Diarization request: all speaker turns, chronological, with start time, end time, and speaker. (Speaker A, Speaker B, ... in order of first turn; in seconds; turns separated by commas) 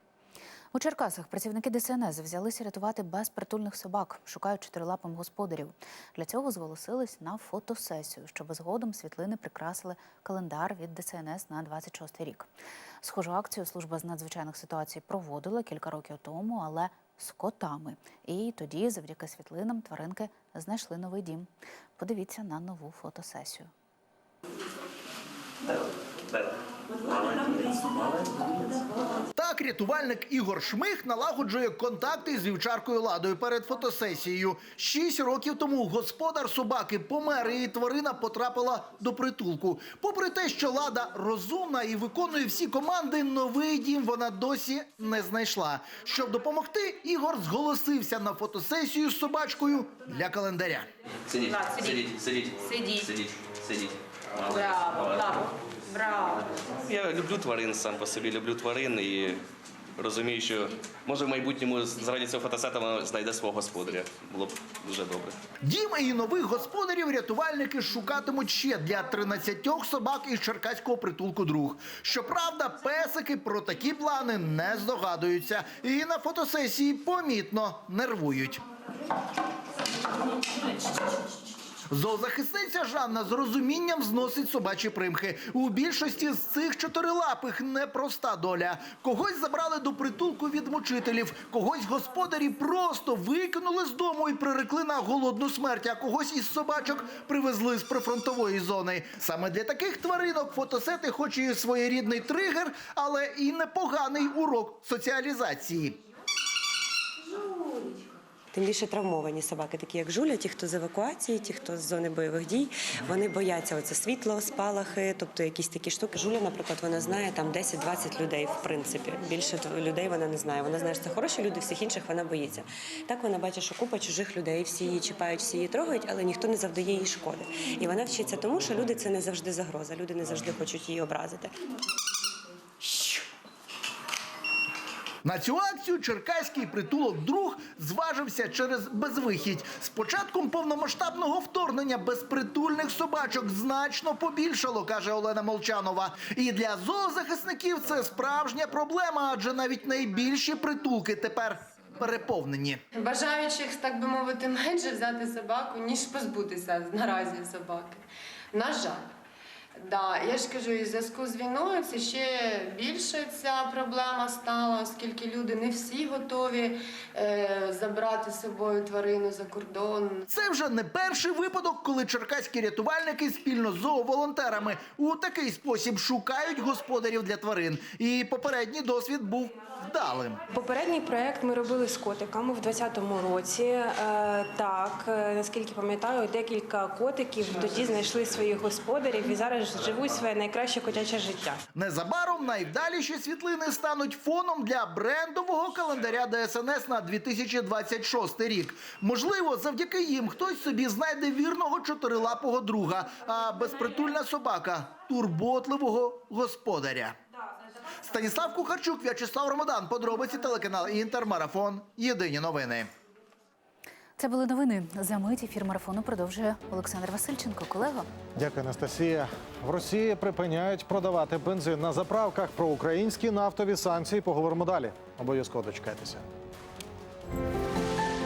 Speaker A: 0.7-12.5, Speaker A: 13.0-23.7, Speaker B: 29.4-50.9, Speaker C: 51.3-55.4, Speaker D: 54.5-56.4, Speaker C: 56.8-59.4, Speaker C: 60.0-65.3, Speaker B: 65.6-78.6, Speaker B: 81.9-106.0, Speaker E: 108.5-131.5, Speaker E: 132.8-133.2, Speaker B: 135.2-152.8, Speaker D: 152.9-159.1, Speaker D: 159.8-170.3, Speaker B: 170.3-180.4, Speaker F: 180.5-191.6, Speaker B: 191.7-207.1, Speaker B: 208.0-212.9, Speaker A: 214.2-218.1, Speaker G: 218.3-226.2